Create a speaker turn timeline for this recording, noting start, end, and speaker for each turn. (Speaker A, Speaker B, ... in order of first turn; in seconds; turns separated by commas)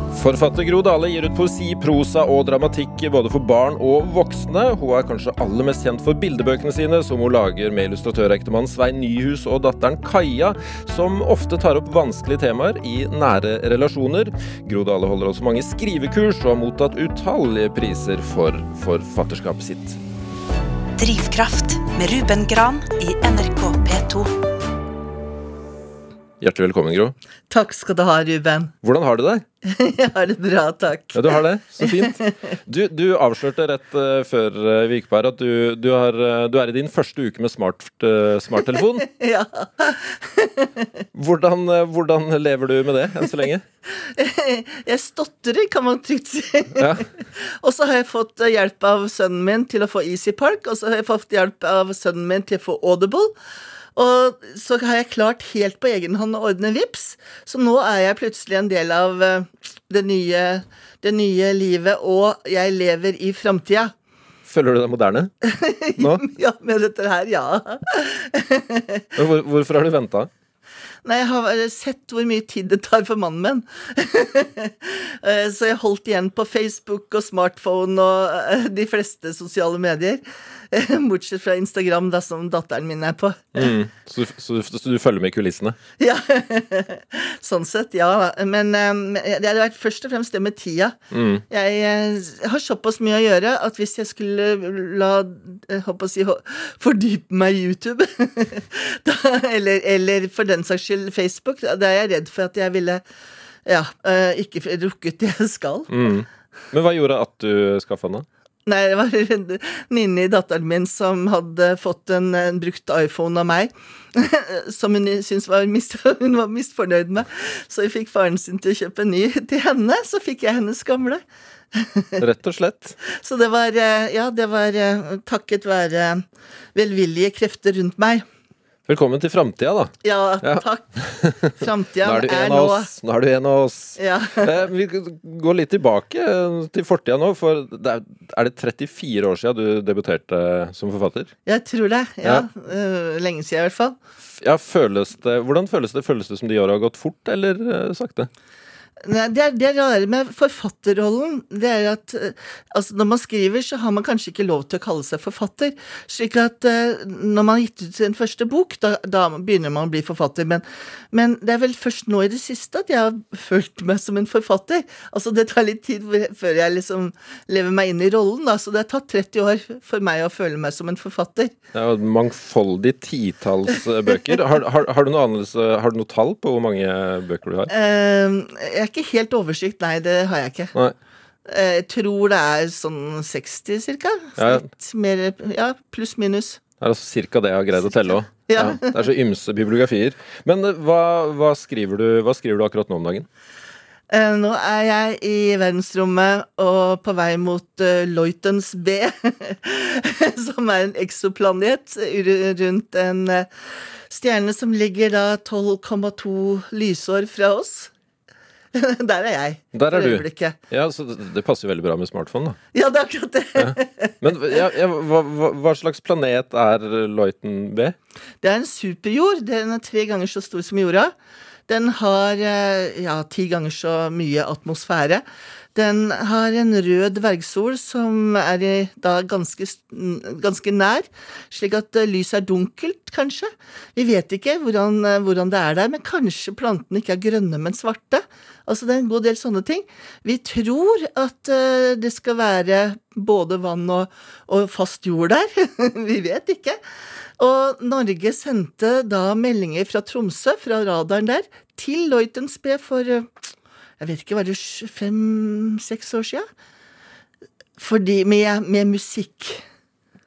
Speaker A: 0.1-20.0, Speaker B: 21.0-24.3, Speaker A: 26.4-27.1, Speaker C: 27.5-28.7, Speaker A: 28.8-29.4, Speaker C: 29.6-32.4, Speaker A: 31.1-39.1, Speaker C: 39.0-40.9, Speaker A: 41.1-43.6, Speaker C: 44.0-53.3, Speaker A: 46.8-47.0, Speaker C: 54.0-63.9, Speaker A: 64.5-65.3, Speaker C: 65.4-69.1, Speaker A: 66.0-66.2, Speaker A: 69.2-70.3, Speaker C: 71.0-83.7, Speaker A: 83.5-85.8, Speaker C: 86.0-91.0, Speaker A: 91.1-91.4, Speaker C: 91.5-103.0, Speaker C: 103.7-105.9, Speaker A: 105.9-108.3, Speaker C: 108.7-122.2, Speaker A: 122.2-123.0, Speaker C: 123.1-126.2, Speaker C: 126.8-128.2, Speaker A: 128.9-141.3, Speaker C: 130.0-132.9, Speaker C: 134.0-134.6, Speaker C: 141.5-144.0, Speaker A: 144.4-148.3, Speaker C: 149.0-171.6, Speaker A: 171.7-177.7, Speaker C: 177.7-180.7, Speaker C: 181.5-186.6, Speaker A: 184.4-184.7, Speaker A: 186.8-193.3, Speaker C: 188.5-189.0, Speaker C: 194.1-203.5, Speaker C: 204.1-207.9, Speaker C: 208.7-210.6, Speaker A: 209.7-212.6, Speaker C: 212.7-214.2, Speaker A: 213.6-218.0, Speaker C: 218.4-221.1, Speaker C: 221.7-225.2, Speaker C: 225.8-246.8, Speaker C: 247.4-253.3, Speaker C: 254.0-256.5, Speaker C: 257.8-259.6